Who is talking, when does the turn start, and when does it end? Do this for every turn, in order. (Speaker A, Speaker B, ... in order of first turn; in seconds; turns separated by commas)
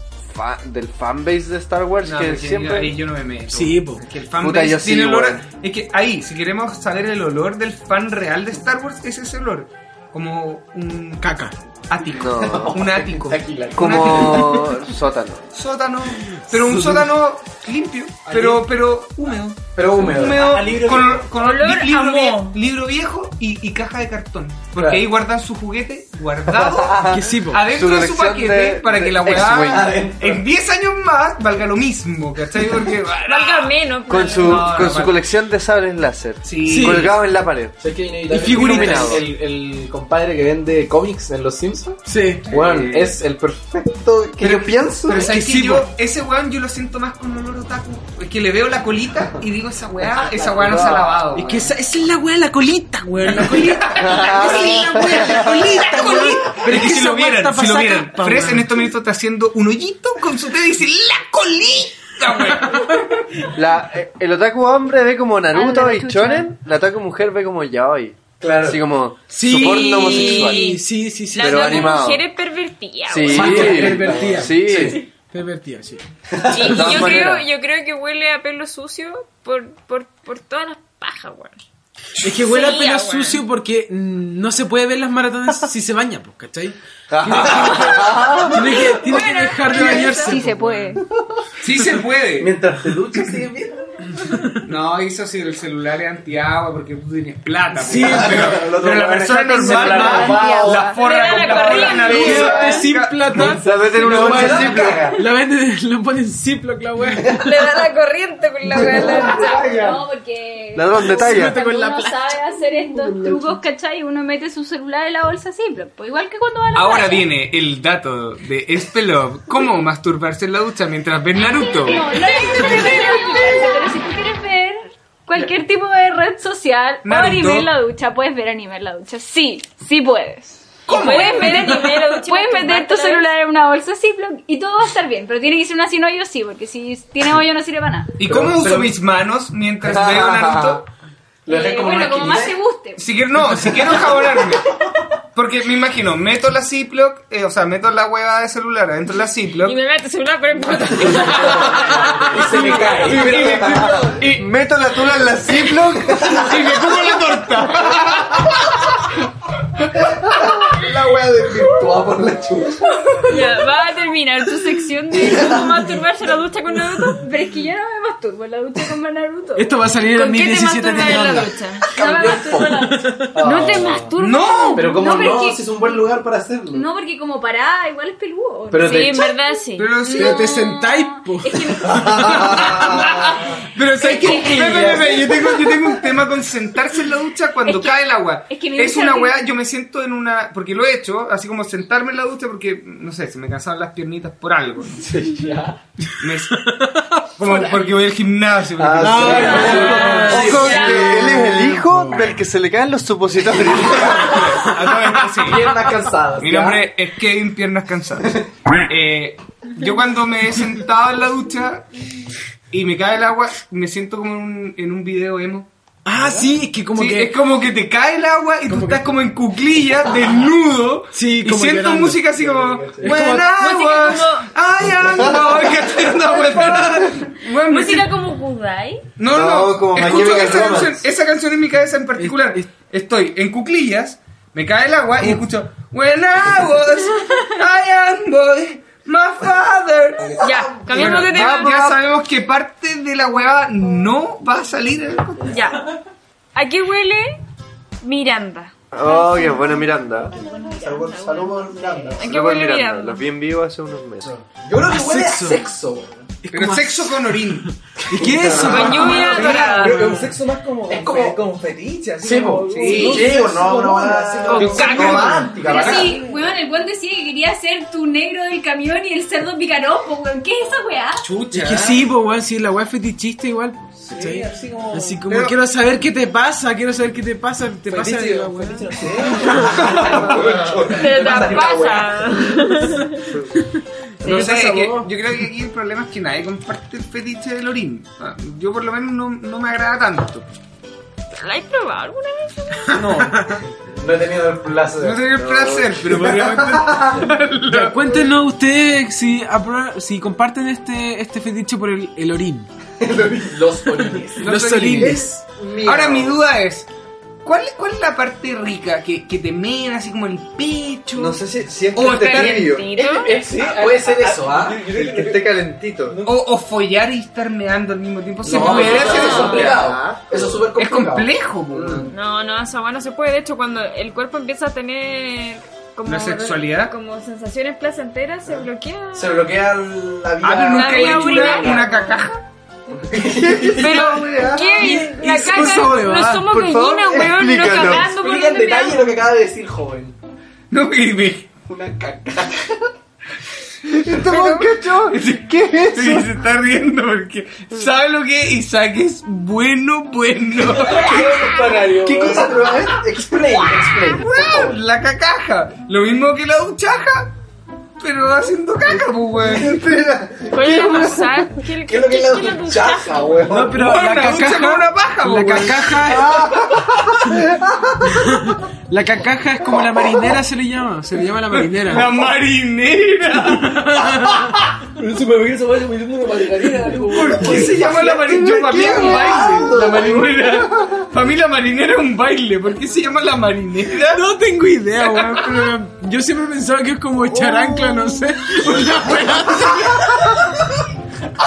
Speaker A: 0.3-3.0, Speaker B: 2.0-11.3, Speaker C: 3.5-4.0, Speaker A: 4.4-5.4, Speaker C: 11.2-11.5, Speaker B: 11.9-14.7, Speaker A: 12.2-12.8, Speaker D: 12.3-14.6, Speaker A: 13.8-15.4, Speaker B: 15.5-33.8, Speaker C: 16.5-17.1, Speaker E: 18.3-18.5, Speaker D: 18.3-18.6, Speaker D: 19.8-20.7, Speaker E: 20.3-21.3, Speaker F: 21.4-22.6, Speaker D: 24.8-25.1, Speaker A: 26.6-29.9, Speaker C: 27.1-27.6, Speaker D: 29.5-30.4, Speaker F: 33.2-34.9, Speaker A: 34.1-37.8, Speaker B: 34.3-35.2, Speaker B: 36.4-37.1, Speaker C: 36.7-37.1, Speaker D: 37.8-45.3, Speaker C: 38.3-39.2, Speaker A: 38.3-39.3, Speaker C: 42.1-42.4, Speaker B: 42.5-43.1, Speaker A: 42.5-43.0, Speaker B: 44.4-51.6, Speaker C: 45.1-45.9, Speaker D: 50.4-51.0, Speaker A: 50.6-51.0, Speaker C: 51.3-54.0, Speaker B: 53.2-63.0, Speaker A: 54.0-55.8, Speaker D: 54.4-56.4, Speaker C: 55.9-58.9, Speaker A: 63.5-70.7, Speaker F: 65.5-66.5, Speaker D: 68.4-68.8, Speaker C: 69.3-71.9, Speaker F: 69.6-73.7, Speaker A: 71.4-72.2, Speaker A: 73.1-75.0, Speaker D: 73.3-75.0, Speaker C: 73.3-76.0, Speaker E: 73.4-74.5, Speaker D: 76.3-77.2, Speaker F: 76.5-81.6, Speaker A: 76.6-77.5, Speaker C: 82.2-90.7, Speaker F: 82.4-83.4, Speaker A: 87.1-88.5, Speaker D: 87.3-88.6, Speaker F: 88.7-90.5, Speaker G: 89.7-91.0, Speaker B: 91.6-92.6, Speaker D: 92.4-94.2, Speaker C: 94.3-94.6, Speaker B: 94.6-103.6, Speaker C: 97.8-98.6, Speaker D: 97.9-100.9, Speaker G: 99.6-101.7, Speaker F: 99.9-100.3, Speaker F: 100.8-102.8, Speaker D: 101.5-102.4, Speaker C: 101.9-107.5, Speaker A: 103.4-105.1, Speaker D: 103.9-105.2, Speaker F: 107.4-109.7, Speaker D: 108.7-110.0, Speaker G: 109.0-117.3, Speaker A: 110.8-111.6, Speaker C: 111.0-112.3, Speaker C: 113.1-113.5, Speaker B: 116.7-122.1, Speaker G: 121.5-138.2, Speaker F: 122.4-123.2, Speaker B: 127.0-127.7, Speaker F: 130.9-133.3, Speaker B: 130.9-132.1, Speaker B: 138.2-140.8, Speaker D: 138.2-139.0, Speaker D: 139.8-140.8, Speaker D: 141.5-142.6, Speaker G: 141.5-143.1, Speaker B: 143.0-144.7, Speaker D: 143.5-144.6, Speaker B: 145.3-149.8, Speaker F: 149.6-153.0, Speaker B: 151.2-151.7, Speaker D: 151.2-154.2, Speaker B: 152.4-154.5, Speaker A: 154.2-156.6, Speaker D: 155.9-156.8, Speaker B: 156.2-158.8, Speaker D: 159.8-163.0, Speaker F: 163.3-167.2, Speaker D: 165.2-165.7, Speaker G: 167.1-169.7, Speaker C: 169.6-171.5, Speaker F: 170.1-172.4, Speaker G: 171.9-176.0, Speaker D: 171.9-174.1, Speaker C: 172.5-173.3, Speaker F: 173.4-174.8, Speaker B: 174.2-174.9, Speaker D: 174.8-176.9, Speaker G: 176.7-179.0, Speaker D: 178.7-179.3, Speaker F: 178.8-180.5, Speaker B: 179.8-180.4, Speaker C: 180.1-182.6, Speaker G: 180.9-183.1, Speaker D: 181.9-183.5, Speaker B: 182.5-195.0, Speaker G: 184.0-185.0, Speaker D: 184.1-185.9, Speaker G: 187.7-189.5, Speaker D: 195.0-195.8, Speaker B: 196.2-200.8, Speaker C: 196.6-197.2, Speaker D: 198.8-201.4, Speaker C: 199.0-202.4, Speaker F: 199.4-201.1, Speaker A: 200.3-204.4, Speaker D: 203.7-204.6, Speaker B: 203.8-205.7, Speaker D: 205.2-206.8, Speaker B: 206.4-211.8, Speaker B: 212.7-215.7, Speaker C: 216.1-217.3, Speaker B: 216.9-228.1, Speaker C: 218.7-219.0, Speaker C: 221.1-222.2, Speaker D: 222.3-223.2, Speaker C: 223.0-223.5, Speaker F: 223.6-224.4, Speaker D: 225.0-226.1, Speaker F: 226.5-226.9, Speaker F: 227.7-229.0, Speaker B: 229.2-245.6, Speaker A: 229.3-230.9, Speaker D: 229.9-231.0, Speaker C: 232.2-232.7, Speaker D: 240.2-241.7, Speaker F: 240.4-241.9, Speaker F: 245.4-245.8, Speaker F: 246.6-247.4, Speaker F: 248.0-248.7, Speaker A: 248.9-250.3, Speaker G: 249.0-252.2, Speaker D: 250.3-252.3, Speaker F: 252.2-253.3, Speaker A: 252.2-254.3, Speaker D: 254.2-256.3, Speaker C: 254.8-255.7, Speaker C: 256.4-260.3, Speaker B: 256.5-257.7, Speaker D: 258.1-259.1, Speaker F: 258.6-260.0, Speaker B: 258.8-259.9, Speaker E: 259.1-265.4, Speaker D: 260.9-261.4, Speaker D: 262.2-266.2, Speaker B: 262.7-263.4, Speaker F: 264.5-265.4, Speaker B: 264.5-266.1, Speaker G: 265.5-271.3, Speaker B: 271.2-272.1, Speaker C: 271.5-278.9, Speaker E: 274.1-275.2, Speaker B: 275.3-275.6, Speaker E: 277.9-280.8, Speaker D: 279.0-282.3, Speaker B: 279.9-280.8, Speaker F: 280.9-283.2, Speaker C: 283.6-285.1, Speaker B: 284.2-290.4, Speaker F: 291.3-292.6, Speaker B: 292.9-293.5, Speaker C: 293.3-293.6, Speaker D: 293.7-295.3, Speaker B: 295.0-298.2, Speaker A: 295.4-295.9, Speaker D: 296.0-297.3, Speaker C: 297.7-302.7, Speaker D: 303.0-306.4, Speaker B: 304.4-305.2, Speaker C: 304.4-305.4, Speaker B: 305.8-306.9, Speaker B: 307.4-311.4, Speaker A: 311.1-313.0, Speaker B: 311.9-312.7, Speaker F: 312.1-313.4, Speaker E: 313.0-316.4, Speaker D: 313.1-314.8, Speaker A: 314.8-316.2, Speaker B: 316.2-319.9, Speaker D: 318.4-322.0, Speaker F: 318.7-319.8, Speaker A: 319.1-320.4, Speaker B: 320.8-322.1, Speaker F: 322.1-329.4, Speaker B: 326.1-326.9, Speaker D: 329.1-331.9, Speaker B: 330.4-332.4, Speaker F: 330.7-332.3, Speaker D: 333.0-334.9, Speaker B: 333.7-335.1, Speaker F: 333.8-339.1, Speaker C: 334.8-336.4, Speaker A: 335.4-338.1, Speaker D: 337.8-340.1, Speaker B: 340.7-341.5, Speaker D: 341.7-342.9, Speaker A: 344.0-346.3, Speaker B: 344.1-351.3, Speaker E: 350.7-352.6, Speaker D: 350.8-354.8, Speaker F: 351.5-352.0, Speaker B: 354.1-357.3, Speaker B: 358.0-359.8, Speaker D: 359.4-363.8, Speaker F: 360.5-363.4, Speaker C: 363.5-366.6, Speaker B: 363.8-366.7, Speaker D: 366.1-368.4, Speaker C: 368.1-372.1, Speaker B: 371.5-374.1, Speaker C: 373.4-374.6, Speaker E: 375.0-377.9, Speaker B: 377.0-384.2, Speaker D: 377.1-381.1, Speaker C: 384.1-389.9, Speaker B: 385.0-385.7, Speaker D: 389.6-390.2